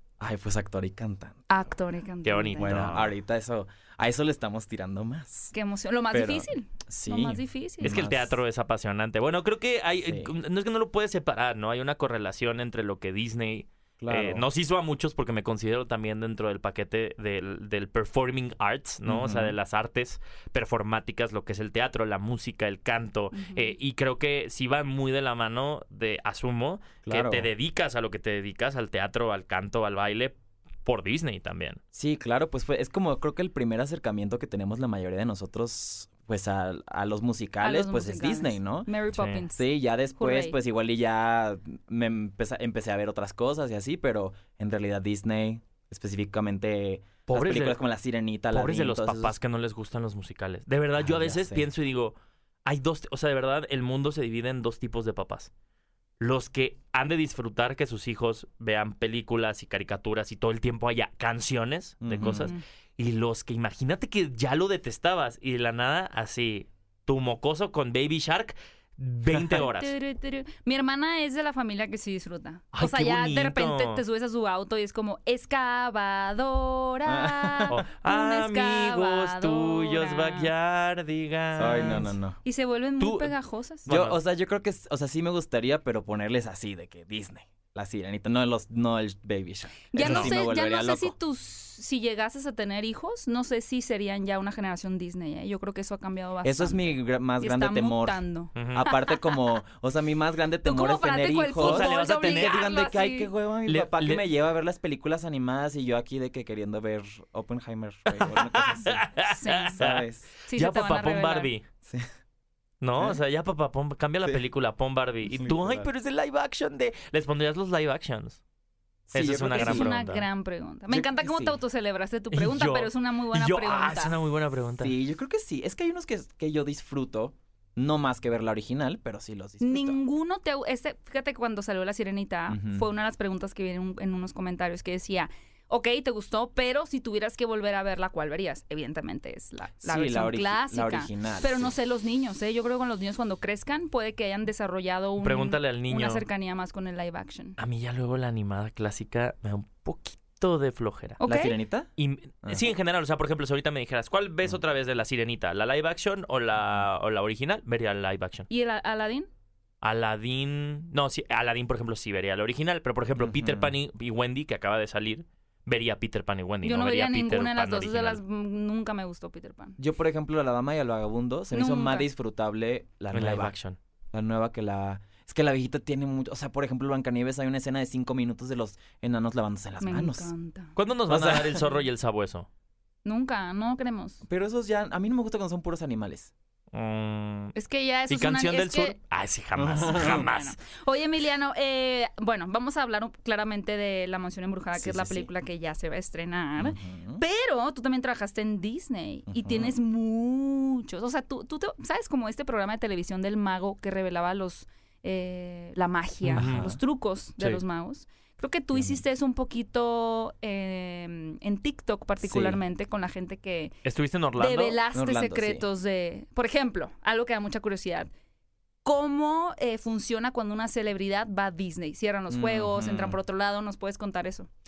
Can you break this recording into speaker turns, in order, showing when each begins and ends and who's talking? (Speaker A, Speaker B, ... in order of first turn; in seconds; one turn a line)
Speaker A: 0.2-1.5
Speaker B: 1.5-2.8
Speaker C: 2.2-3.1
Speaker A: 2.6-5.5
Speaker B: 5.5-7.9
Speaker A: 6.1-8.4
Speaker C: 7.8-31.8
Speaker A: 10.0-10.3
Speaker A: 14.0-14.4
Speaker A: 19.1-19.6
Speaker B: 23.3-23.8
Speaker A: 27.0-27.5
Speaker A: 31.9-38.9
Speaker B: 37.6-39.6
Speaker C: 39.2-39.4
Speaker A: 39.5-49.3
Speaker B: 40.2-40.5
Speaker C: 47.3-47.8
Speaker C: 48.5-55.5
Speaker A: 51.0-51.7
Speaker C: 56.2-70.0
Speaker A: 62.0-62.5
Speaker B: 62.2-62.6
Speaker B: 69.5-80.5
Speaker C: 72.7-74.0
Speaker A: 77.1-77.8
Speaker C: 77.7-82.1
Speaker A: 81.6-82.4
Speaker B: 81.8-83.9
Speaker C: 83.0-83.3
Speaker C: 83.9-84.2
Speaker A: 83.9-91.2
Speaker B: 89.9-99.3
Speaker C: 90.0-90.3
Speaker A: 96.4-98.2
Speaker C: 98.5-98.9
Speaker A: 98.7-109.1
Speaker B: 100.7-103.3
Speaker C: 101.6-102.7
Speaker C: 103.7-104.2
Speaker C: 108.2-111.7
Speaker B: 109.3-109.8
Speaker A: 109.7-110.3
Speaker B: 110.5-111.5
Speaker C: 112.8-118.4
Speaker A: 115.3-115.9
Speaker A: 119.1-120.0
Speaker C: 119.1-120.2
Speaker B: 119.5-124.2
Speaker A: 120.9-121.6
Speaker C: 122.3-124.9
Speaker A: 124.8-130.0
Speaker B: 129.6-147.6
Speaker A: 132.5-132.9
Speaker A: 139.7-141.7
Speaker C: 145.2-146.2
Speaker C: 147.6-151.2
Speaker B: 151.2-151.6
Speaker A: 151.2-151.9
Speaker C: 152.0-158.5
Speaker A: 152.4-152.7
Speaker B: 158.5-159.3
Speaker C: 159.8-168.2
Speaker A: 163.2-163.8
Speaker B: 166.6-169.8
Speaker A: 169.8-173.5
Speaker B: 171.5-172.1
Speaker C: 173.1-173.8
Speaker A: 174.1-180.3
Speaker B: 179.8-180.8
Speaker C: 180.8-182.5
Speaker A: 181.1-181.7
Speaker B: 183.1-184.2
Speaker A: 184.2-186.3
Speaker C: 186.7-187.6
Speaker B: 187.6-188.9
Speaker C: 188.1-190.6
Speaker A: 189.6-190.3
Speaker B: 189.9-213.7
Speaker A: 194.8-195.3
Speaker A: 196.6-197.2
Speaker A: 199.3-199.7
Speaker A: 206.2-206.8
Speaker C: 206.3-206.7
Speaker A: 208.7-209.0
Speaker A: 212.2-212.6
Speaker C: 213.8-214.8
Speaker B: 214.4-218.1
Speaker A: 214.9-215.7
Speaker B: 218.8-224.5
Speaker A: 222.3-223.2